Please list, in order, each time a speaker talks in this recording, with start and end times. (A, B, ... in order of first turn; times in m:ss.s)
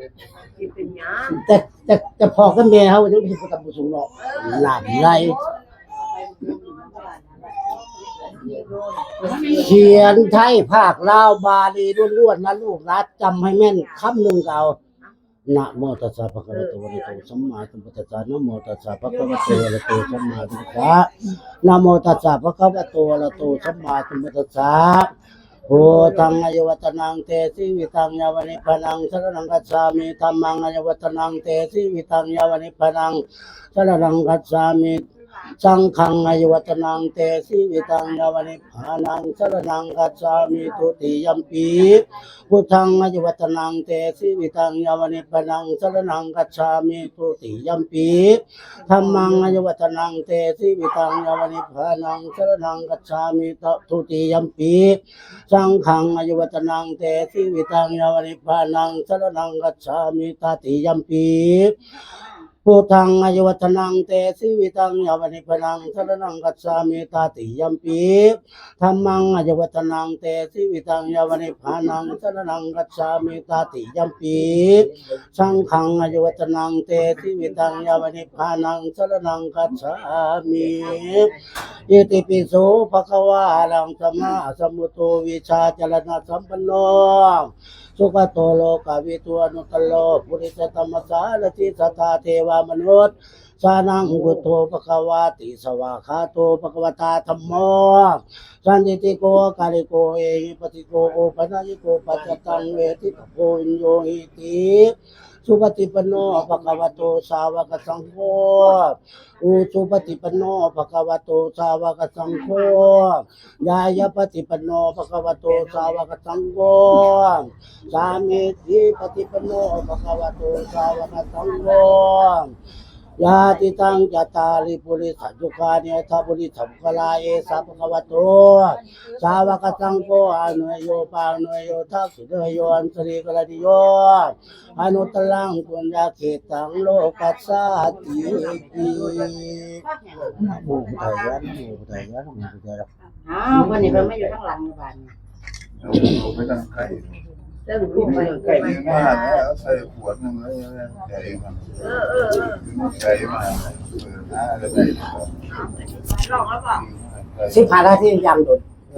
0:00.6-0:01.4 A
0:01.2-0:05.4 B
0:04.2-0:05.5 A
0:06.0-0:10.3 A
0:09.4-0:14.8 B
0:15.5-0:25.1 B
0:19.3-0:19.7 A
0:25.7-0:35.0 B
0:35.6-1:01.8 B
1:02.6-2:02.5 B
2:03.2-2:22.9 B
2:17.6-2:21.4 A
2:23.2-2:25.1 A
2:23.6-2:24.2 C
2:25.8-2:27.1 C
2:27.7-2:29.5 A
2:28.0-2:35.3 C
2:31.8-2:32.6 A
2:36.1-2:36.6 A
2:36.3-2:37.7 C
2:37.4-2:38.6 B